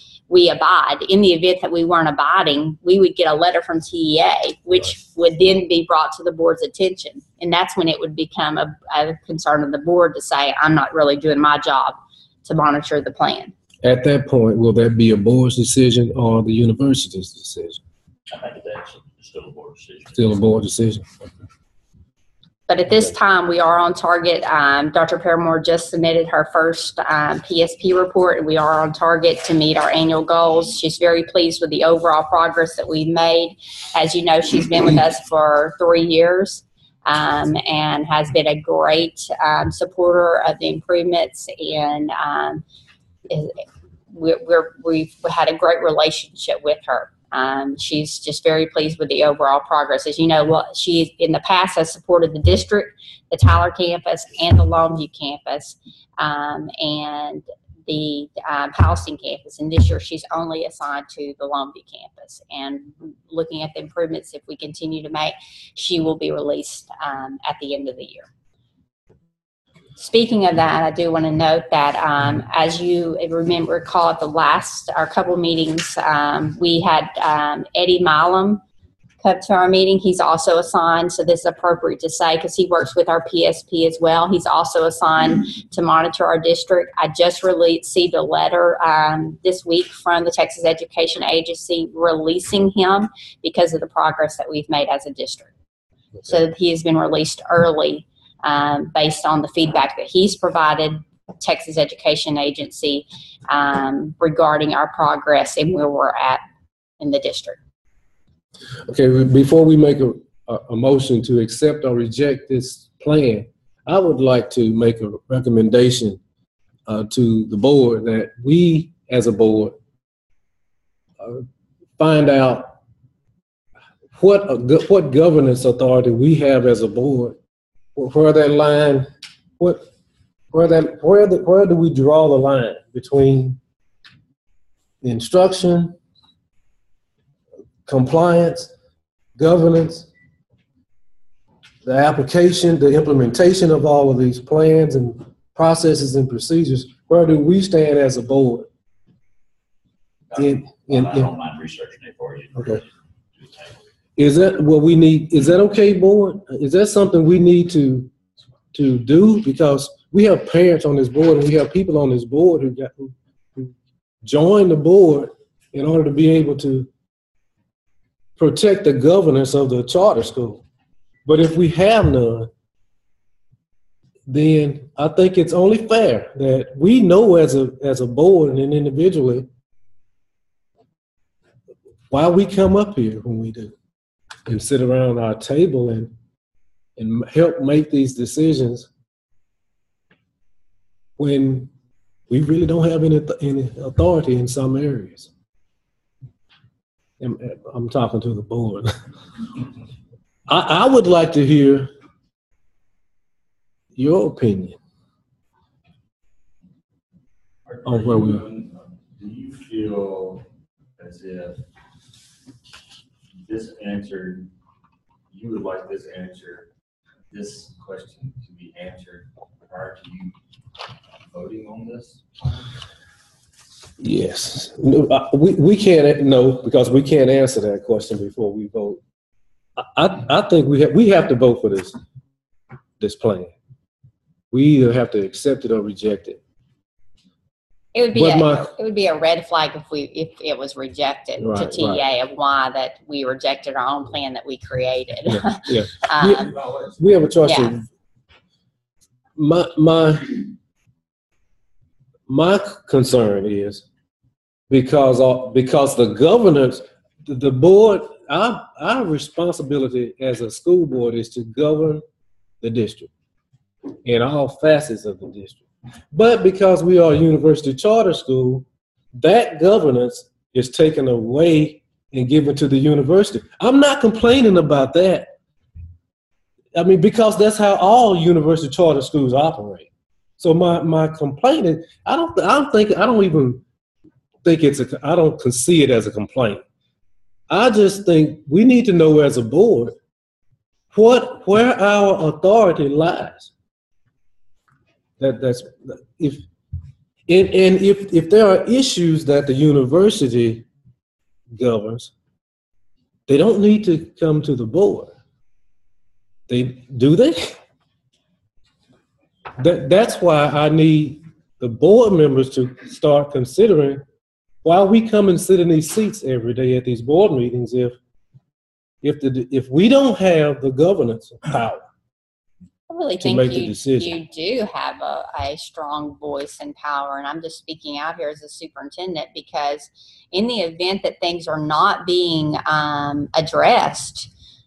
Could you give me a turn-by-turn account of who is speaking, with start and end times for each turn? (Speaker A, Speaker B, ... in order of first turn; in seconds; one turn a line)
Speaker A: 0.3-13.5
Speaker B: 13.8-17.8
Speaker C: 18.3-20.4
Speaker B: 20.1-21.1
Speaker A: 22.7-42.6
Speaker A: 43.3-68.3
Speaker A: 70.0-78.6
Speaker A: 79.2-95.5
Speaker A: 96.2-106.4
Speaker A: 107.0-107.6
Speaker B: 108.9-116.2
Speaker B: 116.9-119.8
Speaker B: 121.2-121.4
Speaker B: 122.0-122.8
Speaker B: 124.1-127.4
Speaker B: 128.0-129.9
Speaker B: 130.5-133.6
Speaker B: 135.0-135.9
Speaker B: 137.8-138.7
Speaker B: 139.4-140.1
Speaker B: 141.8-148.7
Speaker C: 150.3-153.8
Speaker B: 150.4-151.3
Speaker B: 154.2-158.1
Speaker B: 158.7-163.7
Speaker B: 164.2-166.9
Speaker B: 168.4-170.6
Speaker B: 171.2-172.5
Speaker B: 174.3-179.5
Speaker B: 182.1-183.7
Speaker B: 184.4-186.1
Speaker B: 187.0-188.9
Speaker B: 191.2-191.7
Speaker B: 192.3-195.3
Speaker B: 197.2-198.9
Speaker B: 200.5-201.9
Speaker B: 203.9-204.8
Speaker D: 207.7-210.4
Speaker B: 207.8-208.4
Speaker D: 211.0-211.6
Speaker D: 213.4-214.5
Speaker D: 215.3-216.7
Speaker D: 217.3-220.4
Speaker D: 221.1-222.7
Speaker B: 224.0-229.0
Speaker B: 229.8-231.9
Speaker B: 233.0-233.5
Speaker B: 234.5-236.4
Speaker A: 237.9-246.6
Speaker B: 238.1-238.7
Speaker B: 241.4-242.0
Speaker B: 245.3-247.8
Speaker D: 246.6-246.9
Speaker A: 247.4-247.7
Speaker B: 249.4-250.4
Speaker B: 252.3-253.8
Speaker B: 254.7-262.0
Speaker B: 262.6-263.1
Speaker B: 264.0-268.6
Speaker B: 269.2-275.3
Speaker B: 276.7-283.6
Speaker B: 284.4-286.6
Speaker B: 287.5-290.0
Speaker B: 290.9-293.5
Speaker B: 295.2-296.4
Speaker B: 297.3-300.6
Speaker B: 301.5-302.1
Speaker B: 303.3-305.1
Speaker B: 306.5-307.6
Speaker B: 309.6-314.0
Speaker B: 314.6-318.0
Speaker B: 319.0-321.8
Speaker A: 322.9-334.3
Speaker B: 323.2-324.1